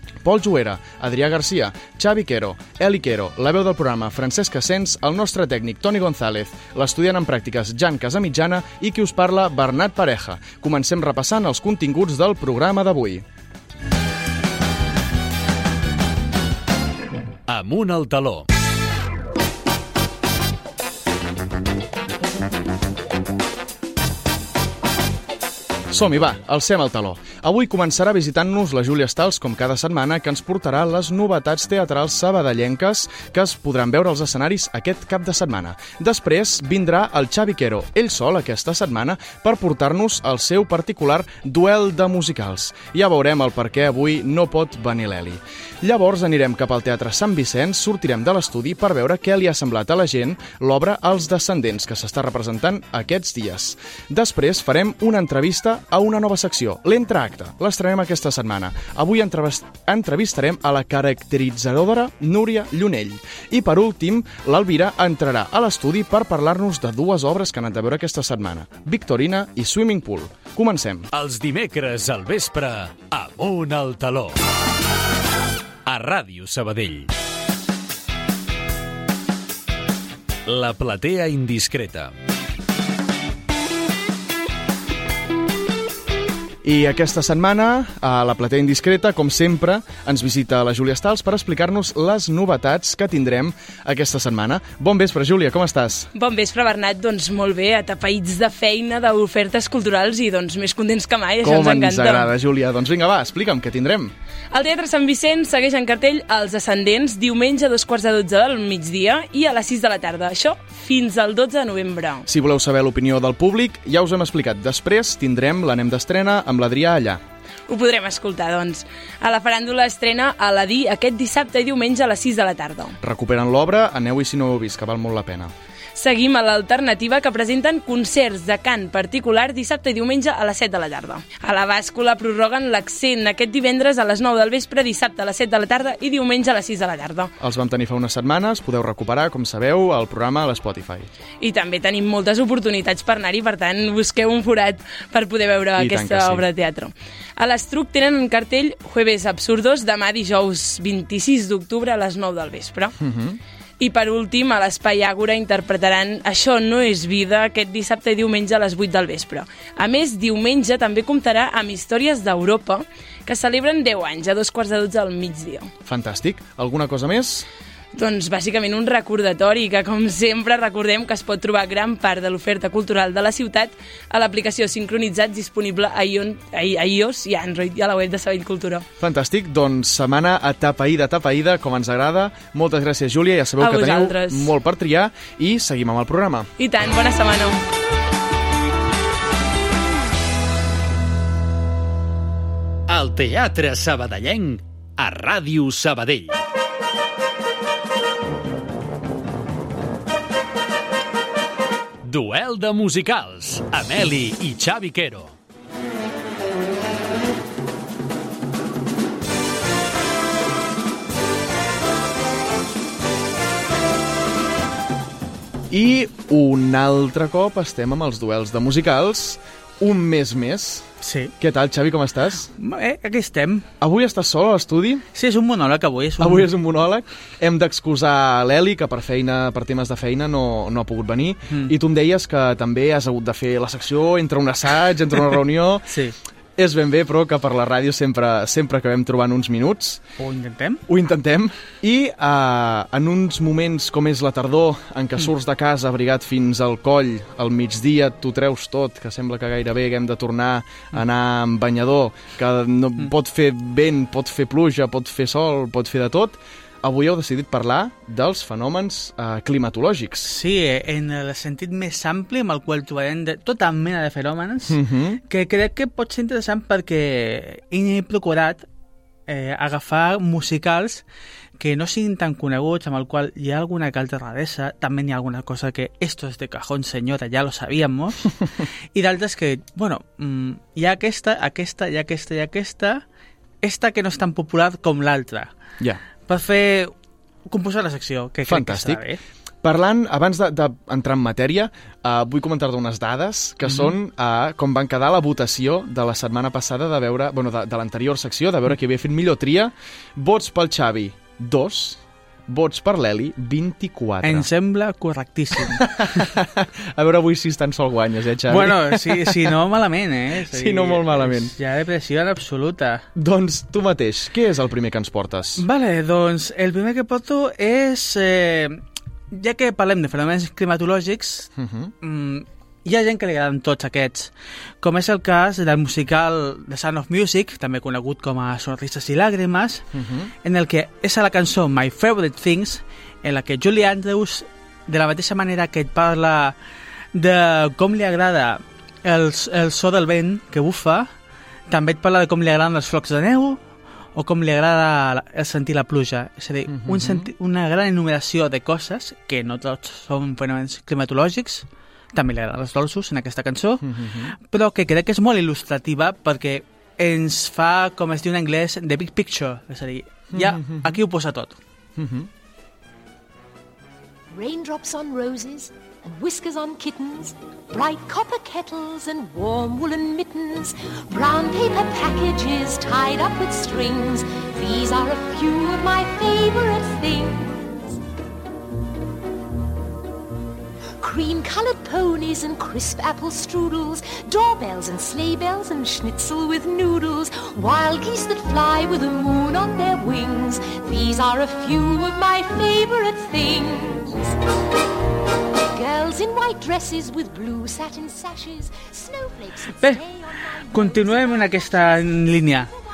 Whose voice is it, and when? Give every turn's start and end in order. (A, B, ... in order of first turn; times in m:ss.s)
0:00.2-0:13.2 A
0:17.5-0:18.5 B
0:25.9-1:11.1 A
1:11.1-1:14.4 B
1:15.9-1:17.1 B
1:20.5-1:22.1 B
1:26.6-1:36.1 A
1:36.2-1:42.3 C
1:41.4-1:44.1 A
1:44.5-1:52.2 C
1:52.3-1:57.2 A
1:57.7-2:03.0 C
2:03.0-2:05.5 A
2:06.0-2:17.3 C
2:17.4-2:21.1 A
2:21.4-2:33.0 C
2:25.8-2:26.4 A
2:33.0-2:33.4 A
2:33.8-2:45.7 C
2:45.9-2:47.5 A
2:47.9-2:58.8 C
2:59.0-3:06.5 A
3:03.6-3:04.5 C
3:06.6-3:07.6 C
3:12.9-3:16.4 B
3:22.0-3:25.4 B
3:35.7-3:40.9 A
3:41.0-3:41.3 D
3:41.4-3:42.5 A
3:42.6-3:43.7 D
3:43.8-3:45.0 A
3:45.2-3:46.5 D
3:46.2-3:55.8 A
3:51.5-3:51.7 D
3:55.9-3:56.2 D
3:56.6-4:00.0 A
4:00.2-4:00.8 D
4:00.9-4:20.3 A
4:20.2-4:28.7 D
4:24.7-4:25.2 A
4:29.3-4:31.0 D
4:31.6-4:43.0 D
4:43.6-4:45.6 D
4:46.3-4:46.9 D
4:47.5-4:49.2 D
4:48.5-4:49.0 A
4:49.6-5:04.5 A
4:53.7-4:53.9 D
5:04.2-5:06.2 D
5:05.7-5:09.5 A
5:08.5-5:13.1 D
5:10.5-5:11.5 A
5:13.2-5:15.6 A
5:15.6-5:29.9 D
5:21.6-5:21.9 A
5:29.9-5:30.3 A
5:30.4-5:36.6 D
5:37.2-5:41.1 D
5:41.7-5:43.6 D
5:44.2-6:01.6 D
5:46.7-5:47.3 A
5:53.8-5:54.3 A
6:00.3-6:01.0 A
6:02.0-6:02.3 A
6:04.3-6:18.0 E
6:21.0-6:34.3 E
6:35.7-6:42.2 E
6:39.8-6:40.0 D
6:40.7-6:42.7 D